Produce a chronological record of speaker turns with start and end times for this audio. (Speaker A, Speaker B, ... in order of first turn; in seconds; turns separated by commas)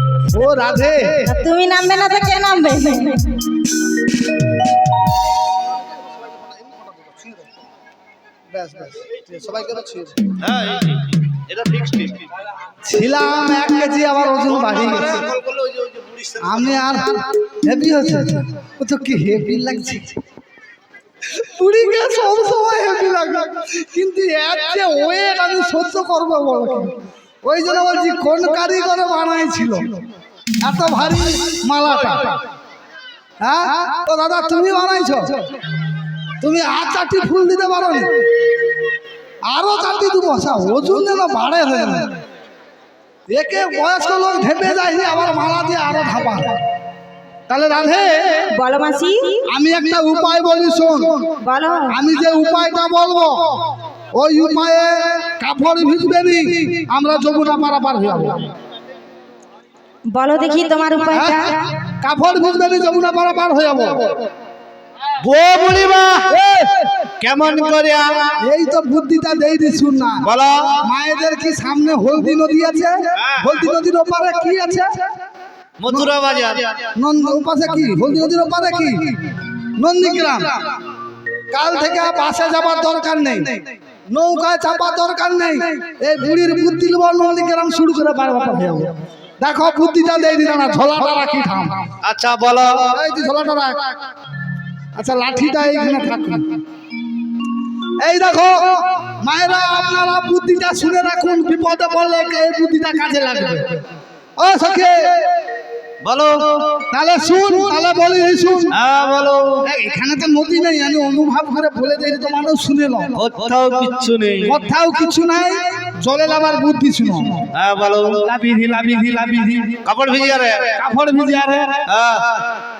Speaker A: 0.3-1.3, Speaker B: 1.2-3.5, Speaker A: 8.5-10.4, Speaker C: 10.4-12.2, Speaker A: 12.8-15.3, Speaker C: 15.1-16.5, Speaker A: 16.4-20.2, Speaker A: 21.2-30.1, Speaker A: 30.6-32.4, Speaker A: 33.4-35.4, Speaker A: 36.4-38.2, Speaker A: 39.5-42.2, Speaker A: 43.3-46.6, Speaker A: 47.5-48.5, Speaker B: 48.5-49.5, Speaker A: 49.5-51.3, Speaker B: 51.4-52.0, Speaker A: 51.9-58.5, Speaker B: 60.1-61.7, Speaker A: 61.1-64.3, Speaker C: 65.2-66.4, Speaker A: 66.3-66.8, Speaker C: 67.2-68.4, Speaker A: 68.4-75.1, Speaker C: 70.2-70.8, Speaker C: 73.2-73.5, Speaker C: 75.8-76.8, Speaker A: 76.9-79.2, Speaker A: 79.8-80.8, Speaker A: 81.5-91.8, Speaker C: 92.0-93.0, Speaker A: 92.9-94.0, Speaker A: 95.0-96.5, Speaker A: 98.0-103.8, Speaker A: 104.4-105.5, Speaker C: 106.0-106.7, Speaker A: 106.7-108.8, Speaker C: 108.7-109.7, Speaker A: 109.6-113.2, Speaker C: 113.2-114.6, Speaker A: 114.4-117.5, Speaker C: 117.5-118.3, Speaker A: 118.2-119.8, Speaker C: 119.8-120.8, Speaker A: 120.8-121.9, Speaker C: 121.9-122.5